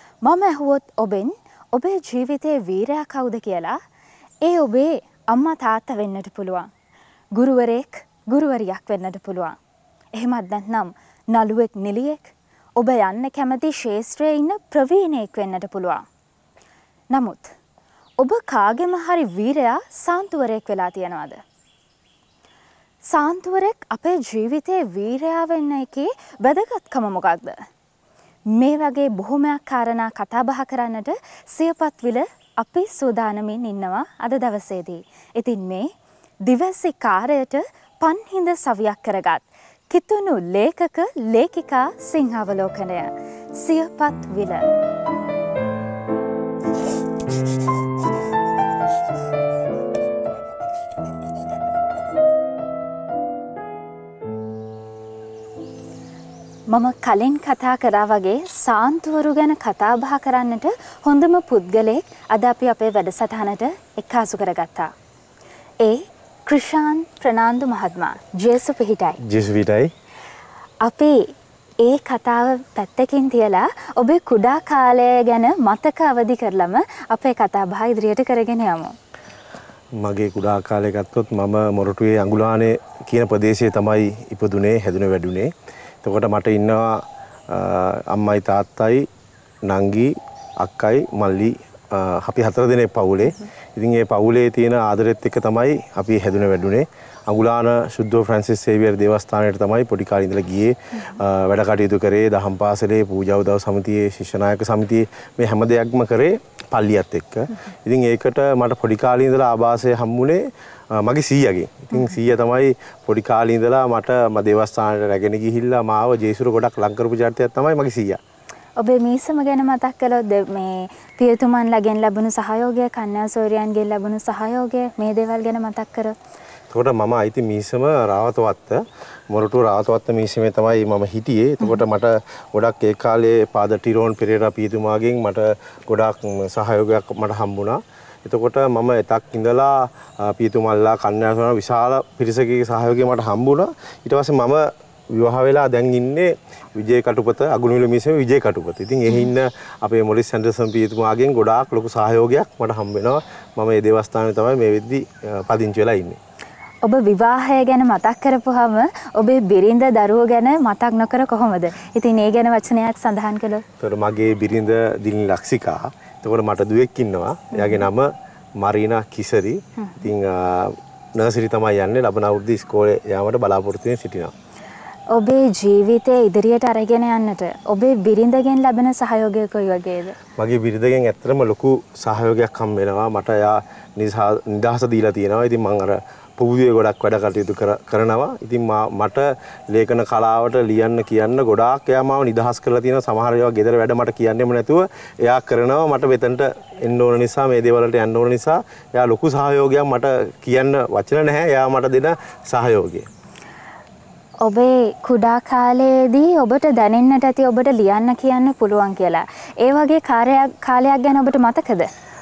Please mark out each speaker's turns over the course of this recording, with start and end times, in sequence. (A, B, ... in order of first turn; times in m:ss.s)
0:00.2-0:03.8 A
0:04.4-0:06.7 A
0:07.4-0:09.6 A
0:10.2-0:16.0 A
0:17.1-0:17.5 A
0:18.2-0:21.4 A
0:23.1-0:27.6 A
0:28.5-0:35.9 A
0:36.4-0:44.7 A
0:56.7-1:04.9 A
1:05.8-1:09.2 A
1:09.2-1:09.9 B
1:10.8-1:18.9 A
1:20.0-1:25.5 B
1:26.0-1:29.1 B
1:29.6-1:58.2 B
1:58.8-2:06.1 A
2:06.7-2:36.2 B
2:36.8-2:43.6 A
2:43.8-2:54.3 B
2:47.5-2:47.9 A
2:55.1-3:00.2 A
3:00.4-3:23.1 B
3:24.4-3:31.9 A